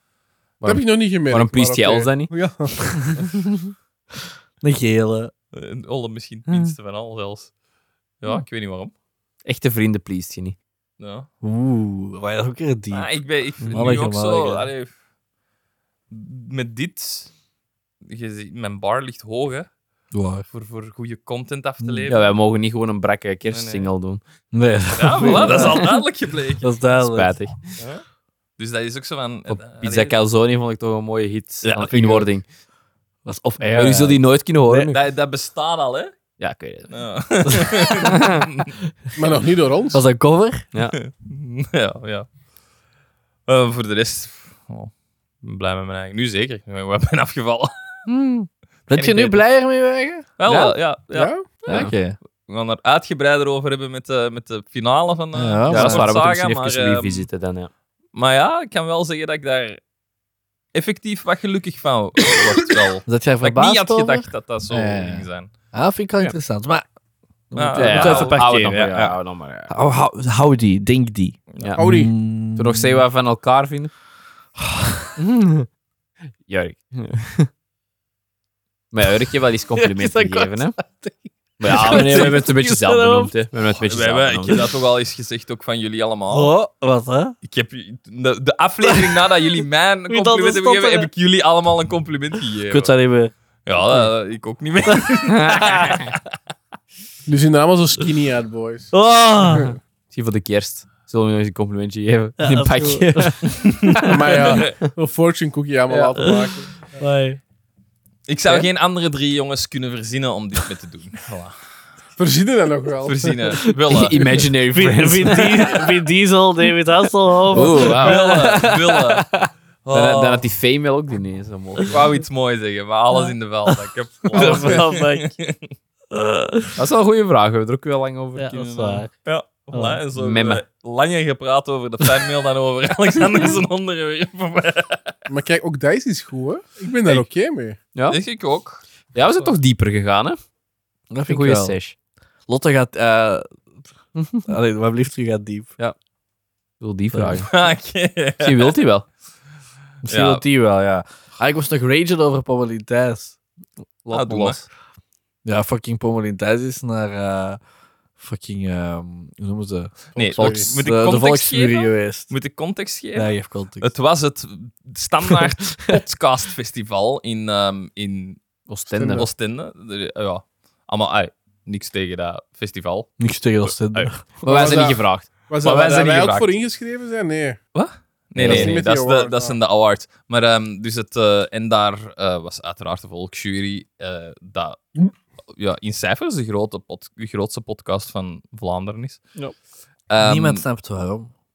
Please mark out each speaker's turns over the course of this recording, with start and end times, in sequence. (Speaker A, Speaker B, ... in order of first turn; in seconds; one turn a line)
Speaker A: 0.6-2.3
Speaker B: 0.6-3.2
Speaker C: 4.6-5.3
Speaker D: 5.5-7.5
Speaker A: 6.5-6.7
Speaker D: 8.2-8.9
Speaker A: 9.4-10.6
Speaker D: 11.0-11.3
Speaker C: 11.4-13.1
Speaker D: 12.9-14.9
Speaker C: 13.7-14.7
Speaker D: 16.1-17.3
Speaker D: 18.1-19.7
Speaker C: 20.1-20.5
Speaker D: 20.5-22.3
Speaker A: 22.1-24.2
Speaker D: 23.5-23.9
Speaker C: 24.5-25.9
Speaker D: 24.9-26.7
Speaker A: 25.2-25.9
Speaker C: 26.6-27.4
Speaker A: 27.0-27.7
Speaker D: 28.6-30.2
Speaker A: 29.5-32.5
Speaker C: 31.6-32.3
Speaker C: 33.2-34.9
Speaker A: 33.6-35.0
Speaker D: 34.9-36.2
Speaker A: 36.4-36.9
Speaker D: 36.9-38.7
Speaker A: 38.0-38.5
Speaker B: 39.2-40.0
Speaker C: 39.9-40.6
Speaker D: 41.0-42.3
Speaker D: 43.5-47.7
Speaker A: 48.1-48.5
Speaker C: 48.9-50.2
Speaker D: 49.0-49.4
Speaker D: 50.4-51.9
Speaker A: 50.5-50.8
Speaker B: 51.1-51.5
Speaker C: 51.7-52.2
Speaker A: 51.7-52.0
Speaker D: 52.5-57.3
Speaker C: 55.3-56.2
Speaker A: 55.7-57.7
Speaker D: 58.1-59.8
Speaker D: 60.7-65.5
Speaker C: 63.1-66.8
Speaker C: 67.5-73.0
Speaker D: 67.5-68.5
Speaker A: 67.7-69.7
Speaker D: 71.5-71.8
Speaker B: 71.8-72.1
Speaker A: 72.5-73.9
Speaker C: 74.6-75.0
Speaker A: 75.2-75.7
Speaker A: 76.4-77.5
Speaker A: 78.9-80.8
Speaker C: 79.8-83.4
Speaker A: 81.6-84.7
Speaker D: 81.7-82.4
Speaker D: 83.8-86.5
Speaker C: 86.3-87.3
Speaker D: 87.4-93.0
Speaker C: 88.8-89.2
Speaker C: 90.1-91.1
Speaker C: 92.7-93.3
Speaker D: 93.7-96.2
Speaker C: 94.8-96.0
Speaker A: 95.3-96.1
Speaker B: 97.3-98.9
Speaker C: 98.9-99.8
Speaker A: 100.1-104.4
Speaker C: 102.4-103.5
Speaker D: 103.7-104.7
Speaker B: 104.0-107.0
Speaker C: 105.9-107.4
Speaker D: 108.3-111.6
Speaker B: 112.2-113.3
Speaker D: 113.0-114.5
Speaker A: 113.9-115.9
Speaker C: 114.4-118.5
Speaker A: 117.5-122.0
Speaker D: 117.7-119.3
Speaker D: 119.8-120.5
Speaker D: 121.9-125.6
Speaker C: 124.3-125.3
Speaker C: 126.1-126.8
Speaker A: 126.8-128.7
Speaker C: 128.4-129.1
Speaker D: 128.6-135.1
Speaker C: 129.7-130.0
Speaker A: 130.2-130.6
Speaker B: 135.3-137.8
Speaker A: 137.9-138.2
Speaker D: 138.1-139.5
Speaker A: 139.1-140.4
Speaker C: 141.1-141.8
Speaker A: 141.3-141.9
Speaker C: 142.5-143.5
Speaker A: 144.2-144.4
Speaker C: 144.5-145.8
Speaker A: 146.8-147.5
Speaker C: 147.1-147.4
Speaker D: 147.4-148.8
Speaker A: 148.4-149.1
Speaker C: 150.1-153.4
Speaker D: 150.1-150.4
Speaker A: 154.0-154.7
Speaker D: 154.1-154.6
Speaker C: 155.4-157.6
Speaker C: 158.2-162.3
Speaker B: 160.2-160.7
Speaker D: 160.2-168.4
Speaker C: 163.2-163.9
Speaker A: 168.7-169.3
Speaker B: 168.9-169.3
Speaker D: 169.1-173.1
Speaker C: 173.2-174.2
Speaker A: 173.9-175.3
Speaker B: 174.4-177.6
Speaker D: 175.6-176.5
Speaker D: 177.7-185.0
Speaker A: 178.4-178.8
Speaker B: 178.4-179.6
Speaker D: 185.5-189.2
Speaker D: 190.1-190.6
Speaker C: 190.2-191.3